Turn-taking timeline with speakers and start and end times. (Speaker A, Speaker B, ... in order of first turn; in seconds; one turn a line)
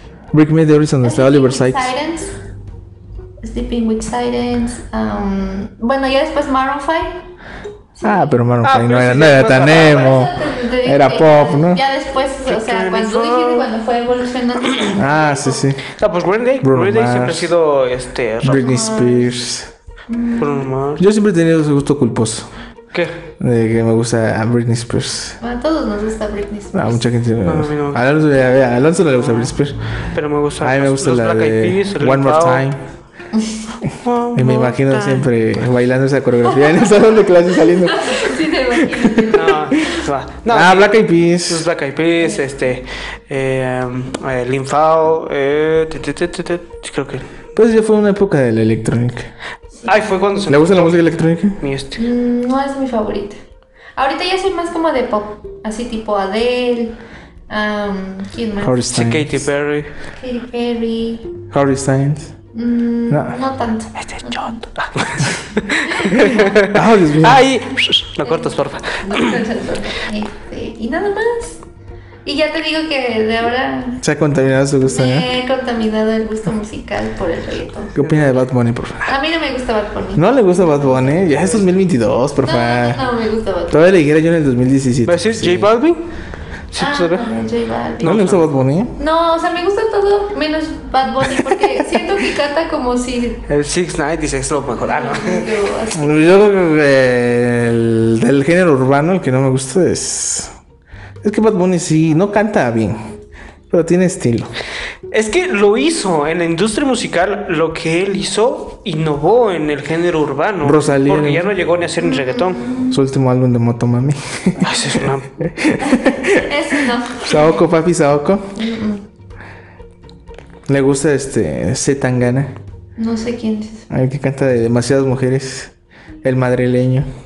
Speaker A: 0.3-1.9
Speaker B: 1.0-2.3
Speaker B: 3.4-7.2
Speaker B: 8.0-8.3
Speaker A: 8.0-11.8
Speaker C: 8.6-10.2
Speaker B: 9.8-15.6
Speaker C: 12.5-13.7
Speaker C: 14.7-15.0
Speaker A: 14.9-15.8
Speaker C: 15.9-18.8
Speaker A: 16.6-17.5
Speaker A: 18.4-19.7
Speaker B: 18.6-19.3
Speaker B: 20.1-20.7
Speaker C: 20.4-21.0
Speaker A: 21.0-22.5
Speaker C: 22.9-23.2
Speaker A: 23.4-25.4
Speaker B: 25.4-27.0
Speaker A: 26.7-29.8
Speaker C: 27.4-28.0
Speaker C: 29.2-29.6
Speaker C: 30.1-32.6
Speaker A: 30.6-32.8
Speaker B: 33.3-33.7
Speaker C: 33.9-35.3
Speaker A: 34.4-39.5
Speaker B: 36.5-40.0
Speaker C: 39.3-47.3
Speaker A: 40.5-41.7
Speaker A: 47.6-49.3
Speaker C: 49.9-52.0
Speaker A: 50.5-51.6
Speaker B: 52.0-53.4
Speaker B: 54.0-57.0
Speaker B: 57.5-58.9
Speaker A: 58.6-59.5
Speaker C: 58.9-59.9
Speaker B: 60.2-61.3
Speaker A: 61.5-62.3
Speaker B: 62.5-64.6
Speaker A: 63.1-63.4
Speaker C: 64.0-69.4
Speaker B: 65.9-66.5
Speaker A: 66.1-67.5
Speaker B: 68.2-71.6
Speaker B: 72.2-74.0
Speaker A: 74.0-75.3
Speaker B: 74.9-78.0
Speaker A: 78.0-79.1
Speaker C: 78.0-78.4
Speaker B: 79.1-81.2
Speaker A: 80.2-83.0
Speaker C: 81.3-81.6
Speaker B: 82.4-83.9
Speaker A: 83.7-85.7
Speaker C: 85.1-86.0
Speaker C: 86.7-87.3
Speaker B: 86.8-88.3
Speaker C: 88.0-88.5
Speaker A: 88.0-88.9
Speaker B: 89.0-93.4
Speaker C: 93.5-95.5
Speaker B: 94.8-96.4
Speaker A: 95.9-100.5
Speaker A: 101.2-103.1
Speaker A: 103.7-104.5
Speaker C: 105.1-112.7
Speaker A: 110.6-111.5
Speaker B: 112.0-113.0
Speaker A: 112.9-118.5
Speaker C: 114.6-115.3
Speaker B: 115.8-117.4
Speaker B: 118.6-119.0
Speaker A: 120.7-122.5
Speaker B: 123.0-123.9
Speaker A: 123.9-125.7
Speaker A: 126.2-127.1